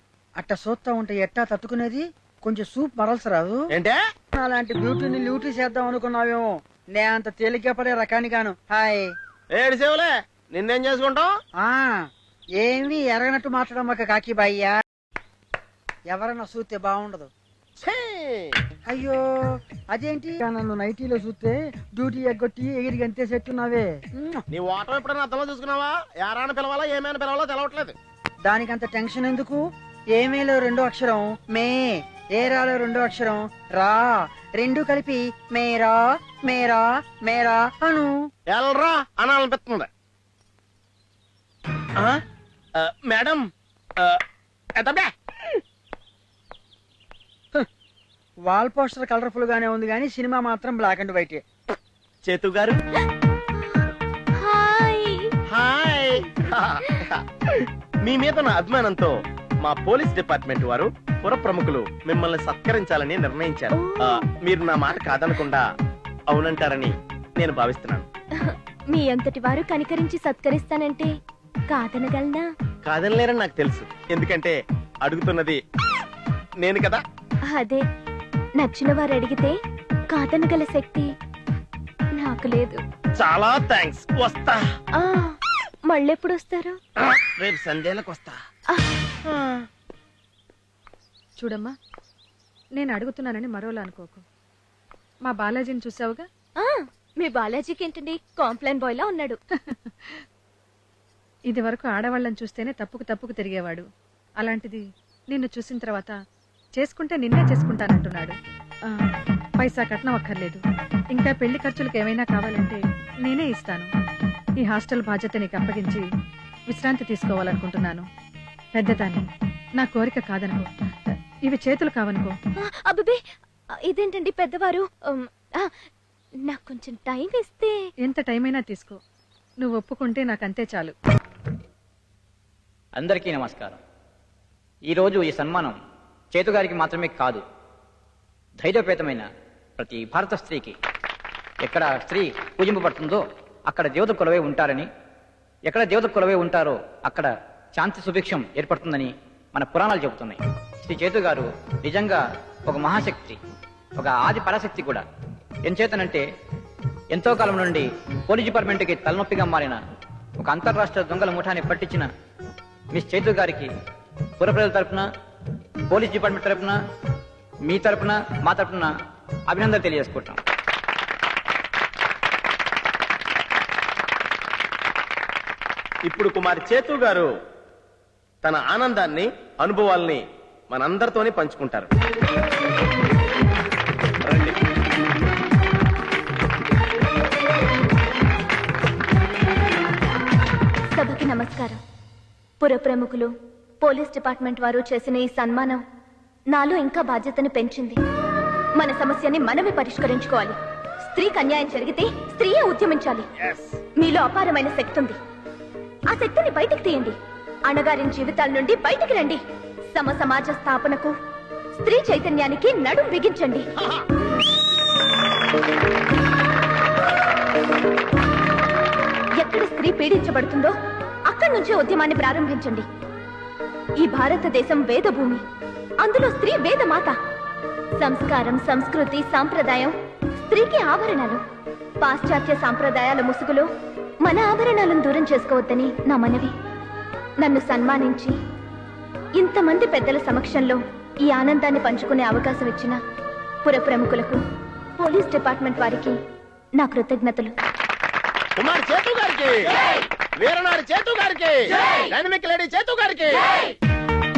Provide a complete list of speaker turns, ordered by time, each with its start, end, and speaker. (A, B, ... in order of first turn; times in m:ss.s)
0:00.4-0:03.6 A
0:04.4-0:09.1 A
0:09.5-0:11.3 B
0:11.6-0:12.0 A
0:12.6-0:14.8 A
0:16.1-0:17.3 A
0:17.8-0:18.5 B
0:18.9-0:19.2 A
0:19.9-0:24.4 A
0:24.5-0:28.0 B
0:28.4-0:29.6 A
0:30.2-0:38.2 A
0:38.5-0:39.9 B
0:42.8-0:43.4 B
0:44.8-0:45.1 B
0:48.5-0:51.4 A
0:52.2-0:52.8 B
0:53.6-0:55.3 C
0:55.5-0:59.1 B
0:59.6-1:05.6 B
1:03.7-1:04.2 C
1:06.3-1:08.1 B
1:08.4-1:11.1 C
1:11.7-1:12.5 C
1:12.8-1:15.6 B
1:16.6-1:17.0 B
1:17.5-1:17.8 C
1:18.6-1:19.5 C
1:20.1-1:21.1 C
1:22.2-1:22.8 C
1:23.2-1:24.6 B
1:25.0-1:25.4 C
1:25.9-1:26.8 C
1:27.0-1:28.4 B
1:29.3-1:29.6 B
1:31.4-1:31.7 D
1:32.8-1:34.2 D
1:35.2-1:36.3 D
1:36.6-1:39.4 C
1:39.7-1:40.2 D
1:41.5-1:43.9 D
1:44.4-1:46.2 D
1:46.8-1:49.0 D
1:49.6-1:50.6 D
1:51.1-1:53.9 D
1:54.6-1:56.0 D
1:56.7-1:58.1 D
1:58.7-1:59.3 D
1:59.8-2:02.3 D
2:02.6-2:03.2 C
2:03.9-2:05.7 C
2:06.5-2:07.8 C
2:08.0-2:09.0 D
2:09.6-2:10.9 D
2:12.9-2:13.8 E
2:14.9-2:15.8 E
2:16.3-2:17.4 E
2:18.6-2:19.3 E
2:19.8-2:20.8 E
2:21.6-2:24.9 E
2:25.7-2:33.4 E
2:34.0-2:35.0 E
2:35.6-2:36.2 E
2:37.1-2:39.8 E
2:40.4-2:42.1 E
2:42.9-2:43.7 E
2:44.4-2:45.1 E
2:45.9-2:46.8 E
2:47.6-2:48.9 E
2:49.5-2:50.4 E
2:56.1-2:57.3 B
2:58.4-3:01.9 B
3:04.3-3:04.6 B
3:10.9-3:11.8 C
3:12.6-3:13.3 C
3:13.8-3:15.8 C
3:16.5-3:18.0 C
3:18.8-3:23.2 C
3:24.0-3:25.2 C
3:26.1-3:27.1 C
3:27.7-3:29.4 C
3:29.9-3:31.1 C
3:31.8-3:33.6 C
3:39.4-3:40.7 C
3:41.3-3:42.8 C
3:44.0-3:45.4 C
3:46.0-3:47.1 C
3:48.0-3:49.9 C
3:50.5-3:51.4 C
3:52.0-3:53.7 C
3:54.2-3:56.5 C
3:57.4-3:58.3 C
3:59.4-4:03.0 C
4:03.6-4:04.4 C
4:05.0-4:06.1 C
4:06.8-4:07.5 C
4:08.6-4:09.9 B
4:10.4-4:13.5 B